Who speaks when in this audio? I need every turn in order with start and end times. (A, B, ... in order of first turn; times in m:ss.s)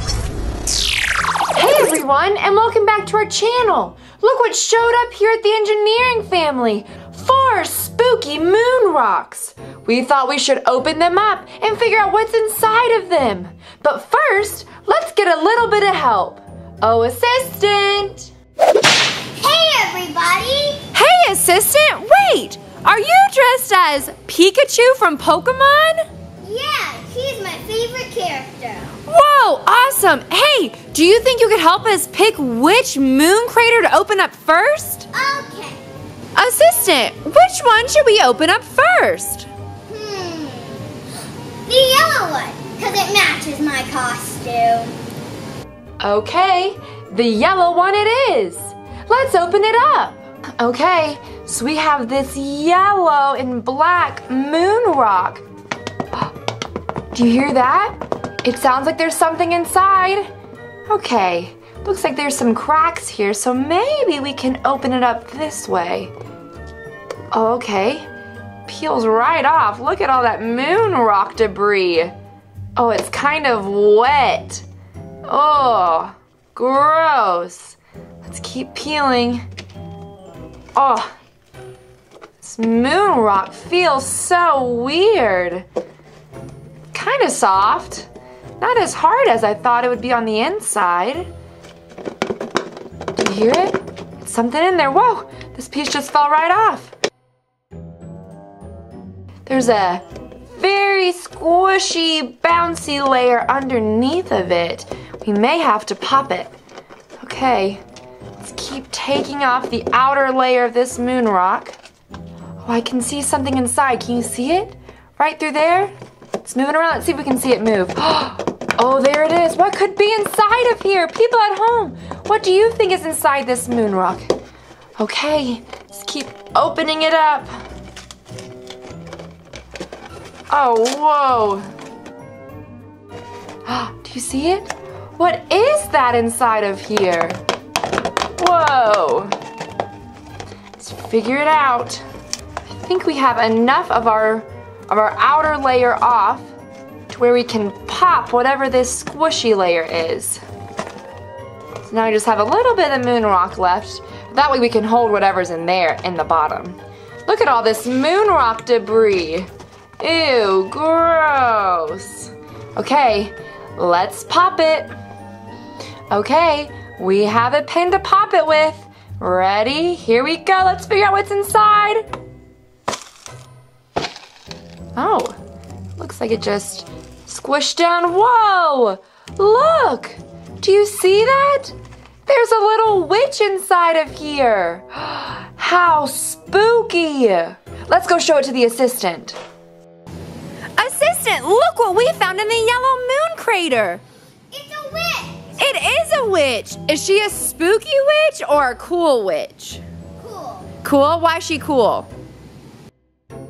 0:01.5-0:18.3 A
0:19.4-0:20.8 B
0:20.9-0:26.0 A
0:26.4-0:29.0 B
0:29.1-0:35.1 A
0:35.1-0:35.8 B
0:36.4-0:39.5 A
0:39.9-0:41.0 B
0:41.7-0:45.0 B
0:46.0-0:55.4 A
0:57.1-1:00.3 A
1:00.9-1:06.1 A
1:07.3-1:08.1 A
1:08.7-1:12.1 A
1:12.8-1:14.6 A
1:15.3-1:19.4 A
1:20.8-1:21.1 A
1:22.4-1:25.6 A
1:26.9-1:28.1 A
1:28.6-1:31.3 A
1:33.2-1:36.9 A
1:39.5-1:46.5 A
1:47.2-1:47.8 A
1:48.4-1:51.8 A
1:52.6-1:55.9 A
1:56.4-2:04.3 A
2:05.0-2:07.5 A
2:10.5-2:11.7 A
2:13.6-2:17.4 A
2:18.4-2:19.3 A
2:20.8-2:22.0 A
2:22.7-2:26.5 A
2:27.1-2:30.4 A
2:31.8-2:39.5 A
2:40.0-2:44.9 A
2:46.1-2:52.0 A
2:55.0-2:55.4 A
2:56.0-3:01.7 A
3:02.3-3:09.4 A
3:10.8-3:14.0 A
3:14.5-3:15.6 B
3:15.6-3:19.8 A
3:20.2-3:20.7 B
3:20.8-3:22.1 A